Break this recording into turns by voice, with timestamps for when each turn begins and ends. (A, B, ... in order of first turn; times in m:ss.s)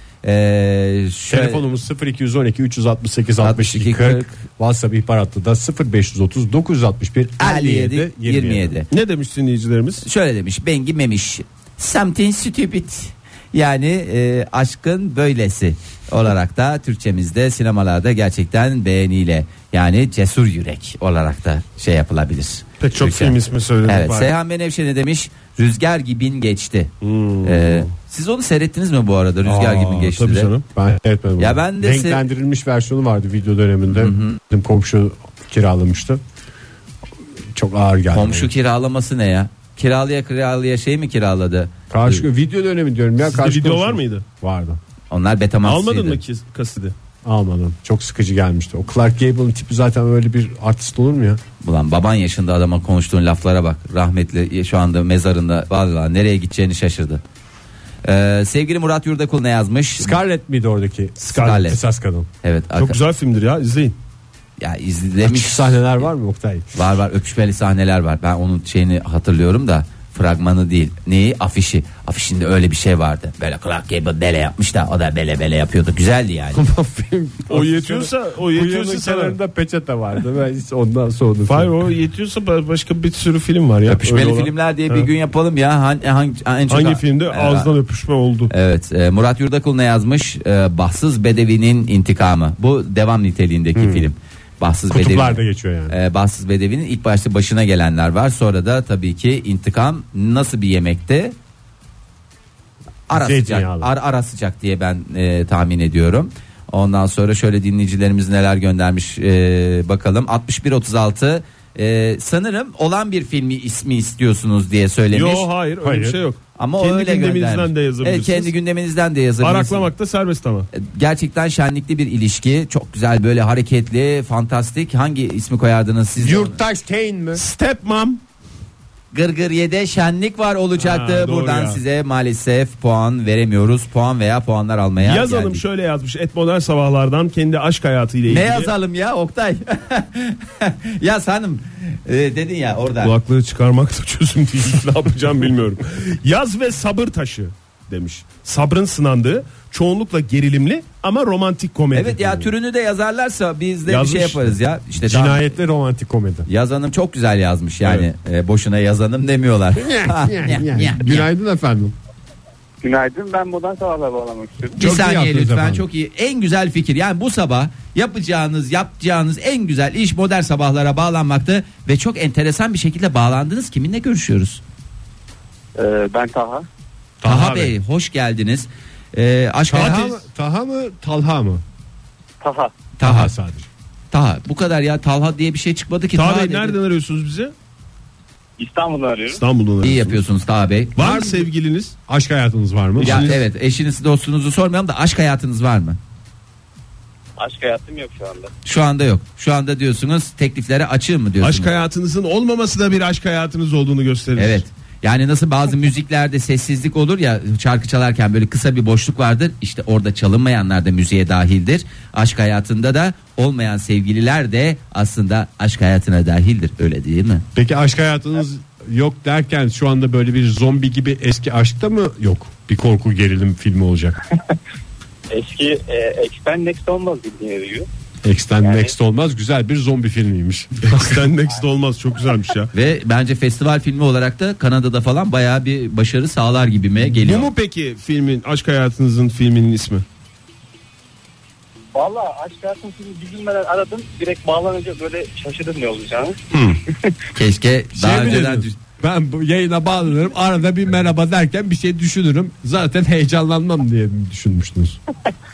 0:00.2-0:01.6 A
0:01.3-0:08.7 B
0:03.4-0:04.3 A
0:07.4-0:08.9 A
0:08.9-0:10.0 C
0:10.0-0:30.5 A
0:22.8-0:24.3 C
0:27.0-0:27.9 C
0:29.4-0:30.1 B
0:30.0-0:30.6 C
0:30.7-0:36.2 B
0:31.4-0:32.2 A
0:33.9-0:34.4 A
0:37.5-0:38.5 B
0:38.1-0:42.2 A
0:41.9-0:44.8 B
0:43.2-0:44.2 C
0:45.1-0:46.2 A
0:45.6-0:46.9 C
0:47.2-0:51.4 B
0:51.6-0:57.2 A
0:58.0-1:00.2 A
1:00.0-1:02.3 B
1:01.2-1:01.6 C
1:01.3-1:01.8 A
1:02.4-1:03.0 A
1:02.7-1:04.0 C
1:04.6-1:06.0 A
1:05.2-1:06.7 B
1:06.7-1:16.6 A
1:16.5-1:21.7 B
1:17.5-1:19.4 C
1:21.5-1:25.1 C
1:23.8-1:27.7 A
1:26.7-1:28.5 C
1:28.5-1:41.4 A
1:33.7-1:34.1 B
1:34.9-1:35.9 B
1:43.1-1:55.5 A
1:43.1-1:43.9 B
1:55.1-1:58.5 C
1:55.8-1:56.2 B
1:56.6-1:59.9 A
1:59.4-2:00.7 C
2:00.7-2:06.6 A
2:06.2-2:07.4 B
2:07.3-2:08.2 C
2:09.1-2:15.6 A
2:10.8-2:11.8 C
2:15.0-2:18.7 C
2:18.3-2:23.1 A
2:23.0-2:32.5 C
2:31.9-2:35.5 A
2:33.8-2:34.5 C
2:35.0-2:36.5 B
2:36.5-2:41.3 A
2:39.8-2:41.9 B
2:42.8-2:44.8 D
2:44.8-2:45.8 B
2:44.8-2:54.6 A
2:55.8-2:56.6 D
2:57.2-2:57.7 B
2:57.2-3:00.2 A
2:59.7-3:01.6 B
3:02.4-3:02.7 D
3:03.0-3:03.3 A
3:03.0-3:03.7 B
3:04.1-3:06.8 A
3:06.1-3:07.5 C
3:08.6-3:09.4 D
3:09.3-3:10.2 C
3:09.8-3:11.3 A
3:11.0-3:12.0 C
3:12.1-3:13.3 B
3:13.0-3:13.4 C
3:13.0-3:16.0 A
3:17.4-3:18.5 D
3:18.6-3:21.7 A
3:21.4-3:24.6 C
3:24.4-3:37.4 A
3:37.5-3:44.2 B
3:45.3-3:47.9 D
3:48.2-3:51.2 B
3:48.6-3:48.9 D
3:50.8-3:52.7 C
3:52.7-3:57.5 A
3:57.1-4:00.0 C
4:01.9-4:06.4 D
4:06.5-4:06.8 C
4:07.4-4:08.7 A
4:08.0-4:15.0 B